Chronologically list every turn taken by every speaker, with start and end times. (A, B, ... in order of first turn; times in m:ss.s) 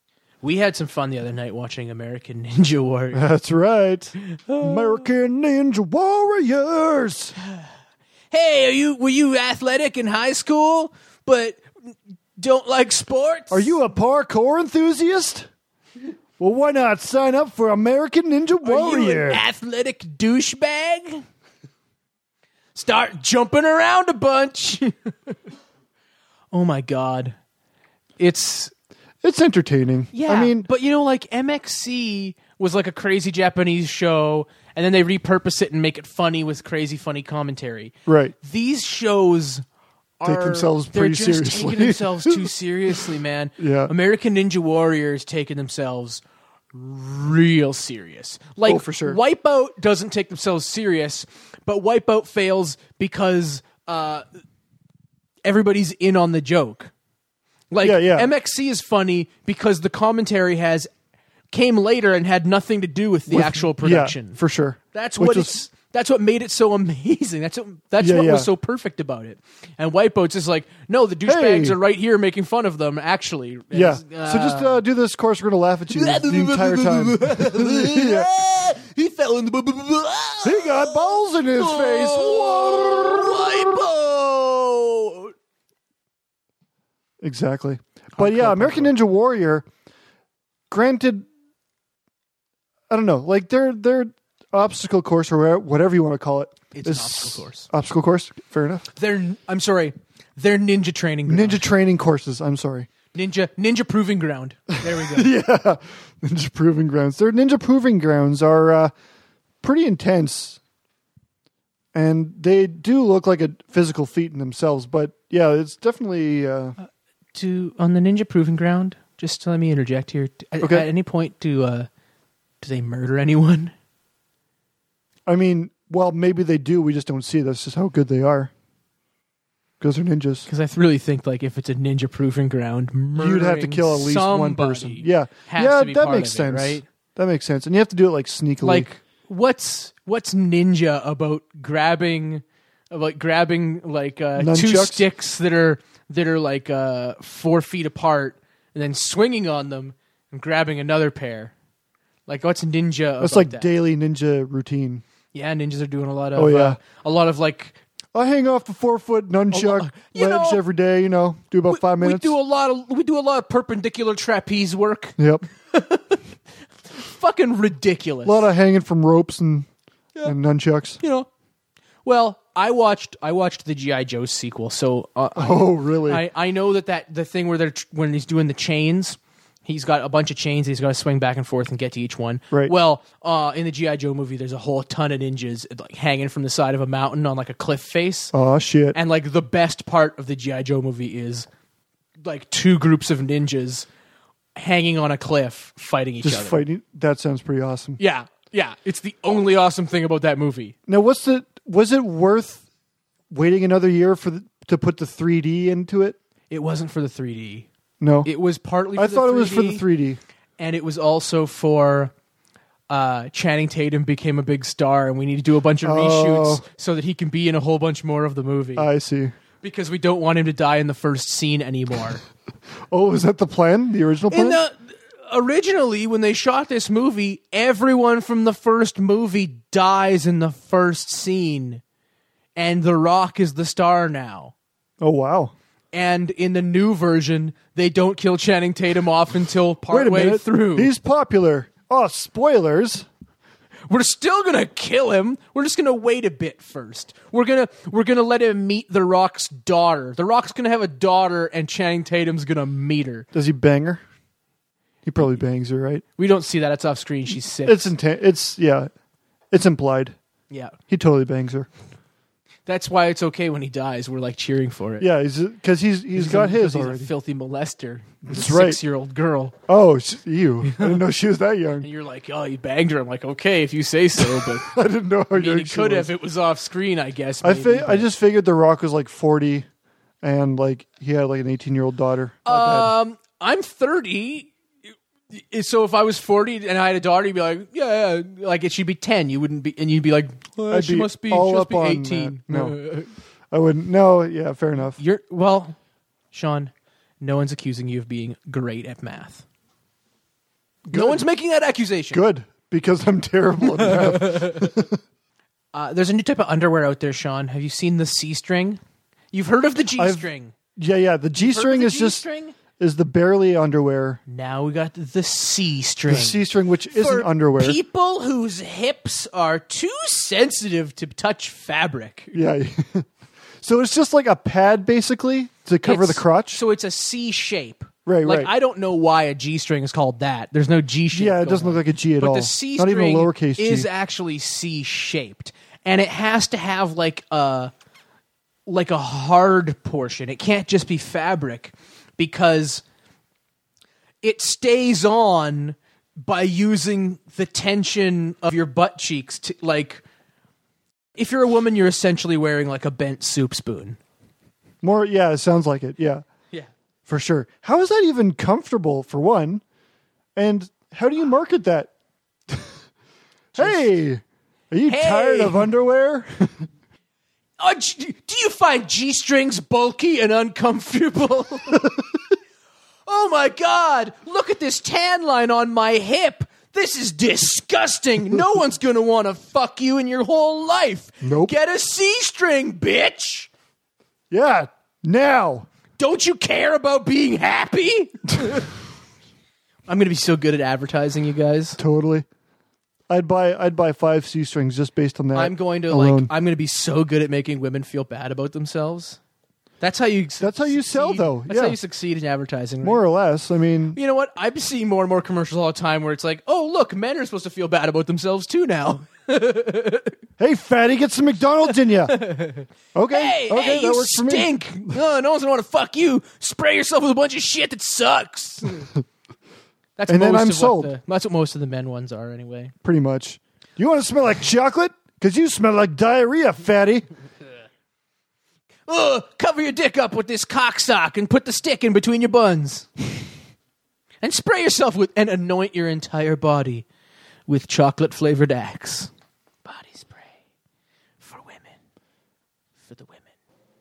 0:00.4-0:03.2 A
0:03.1-0:07.3 B
0:04.3-0:05.0 A
0:08.3-0:13.8 A
0:13.5-0:15.5 B
0:16.4-0:19.4 B
0:18.6-0:21.2 A
0:22.7-0:25.4 A
0:26.5-0:27.4 A
0:28.2-0:28.7 A
0:29.2-0:30.7 B
0:30.1-0:39.6 A
0:38.0-0:38.3 B
0:40.2-0:46.2 A
0:40.2-0:42.5 B
0:43.6-0:43.9 B
0:46.7-0:54.2 A
0:48.6-0:49.2 B
0:55.4-0:56.9 A
0:57.7-1:00.9 A
0:57.8-0:58.3 B
1:01.5-1:04.4 A
1:03.3-1:05.5 B
1:04.9-1:14.8 A
1:08.0-1:08.5 B
1:11.3-1:11.8 B
1:13.7-1:18.3 B
1:15.9-1:25.3 A
1:20.4-1:23.6 B
1:27.2-1:29.6 B
1:28.2-1:28.9 A
1:30.7-1:31.3 B
1:32.9-1:38.8 B
1:36.7-1:37.7 A
1:39.0-1:41.6 A
1:41.3-1:42.9 B
1:43.1-1:45.3 A
1:44.9-1:48.9 B
1:49.6-1:50.6 B
1:51.9-1:56.8 B
1:57.3-2:01.9 A
2:00.6-2:00.9 B
2:02.6-2:03.7 A
2:05.3-2:08.5 B
2:09.8-2:10.5 B
2:10.4-2:16.8 A
2:13.2-2:18.9 B
2:18.6-2:31.5 A
2:24.4-2:25.0 B
2:32.3-2:33.7 A
2:33.2-2:35.0 B
2:35.3-2:37.8 A
2:36.3-2:36.8 B
2:38.1-2:42.4 B
2:39.5-2:40.6 A
2:41.7-2:45.2 A
2:45.2-2:45.4 B
2:45.7-2:46.2 A
2:47.0-2:48.5 A
2:48.2-2:49.7 B
2:50.2-2:51.0 B
2:51.0-2:51.3 A
2:52.0-3:08.3 A
2:55.4-2:56.2 B
3:08.3-3:09.0 B
3:08.9-3:11.5 A
3:12.2-3:13.9 A
3:14.6-3:16.6 A
3:16.2-3:18.0 B
3:18.0-3:20.7 A
3:20.9-3:22.6 B
3:23.3-3:26.2 B
3:26.5-3:27.7 A
3:28.0-3:28.3 B
3:28.2-3:29.8 A
3:29.0-3:30.2 B
3:30.6-3:32.1 A
3:32.9-3:38.9 A
3:35.8-3:36.6 B
3:38.8-3:39.3 B
3:39.6-3:42.2 A
3:42.9-3:44.6 B
3:44.3-3:51.8 A
3:52.6-3:54.5 A
3:55.0-3:55.5 B
3:55.9-4:00.9 A
3:59.9-4:03.1 B
4:03.9-4:13.3 A
4:13.3-4:14.0 B
4:15.0-4:16.0 B
4:16.2-4:17.9 A
4:17.6-4:18.9 B
4:19.5-4:20.2 B
4:20.5-4:20.7 A
4:20.9-4:21.7 B
4:22.6-4:25.1 A
4:25.0-4:27.1 B
4:26.1-4:29.5 A
4:28.3-4:28.8 B
4:29.7-4:31.9 B
4:30.7-4:31.0 A
4:31.8-4:34.7 A
4:34.2-4:36.1 B
4:35.3-4:38.1 A
4:37.4-4:39.7 B
4:40.2-4:42.9 B
4:42.4-4:44.5 A
4:45.3-4:53.1 A
4:50.7-4:52.8 B
4:53.5-4:55.0 B
4:55.0-4:55.8 A
4:56.3-4:59.4 A
5:00.9-5:01.2 B
5:00.9-5:02.2 A
5:02.1-5:05.0 B
5:03.9-5:04.6 A
5:05.7-5:08.8 A
5:09.3-5:10.5 A
5:10.0-5:12.2 B
5:11.4-5:12.6 A
5:12.8-5:14.2 B
5:14.3-5:22.3 A
5:16.1-5:17.8 B
5:22.3-5:23.1 B
5:23.6-5:26.6 B
5:25.8-5:37.7 A
5:28.0-5:28.5 B
5:31.1-5:33.9 B
5:38.7-5:42.8 A
5:44.2-5:50.0 A
5:51.2-5:54.0 A
5:54.8-5:56.2 B
5:57.1-5:59.6 B
6:00.4-6:01.9 B
6:03.5-6:03.9 A
6:03.5-6:06.6 B
6:04.9-6:05.7 A
6:07.6-6:11.9 A
6:13.1-6:23.5 A
6:21.2-6:21.5 B
6:24.3-6:25.7 B
6:26.0-6:28.7 A
6:29.9-6:31.8 A
6:31.8-6:32.2 B
6:33.1-6:36.3 B
6:35.3-6:39.2 A
6:39.8-6:43.0 A
6:40.4-6:41.8 B
6:42.8-6:44.0 B
6:43.9-6:50.2 A
6:50.4-6:52.2 B
6:52.0-6:58.9 A
6:52.9-6:55.0 B
7:00.0-7:02.7 A
7:00.1-7:00.9 B
7:02.8-7:07.1 B
7:08.9-7:13.1 A
7:14.2-7:16.8 A
7:17.5-7:19.1 A
7:19.6-7:20.3 A
7:21.2-7:21.8 A
7:22.9-7:23.2 A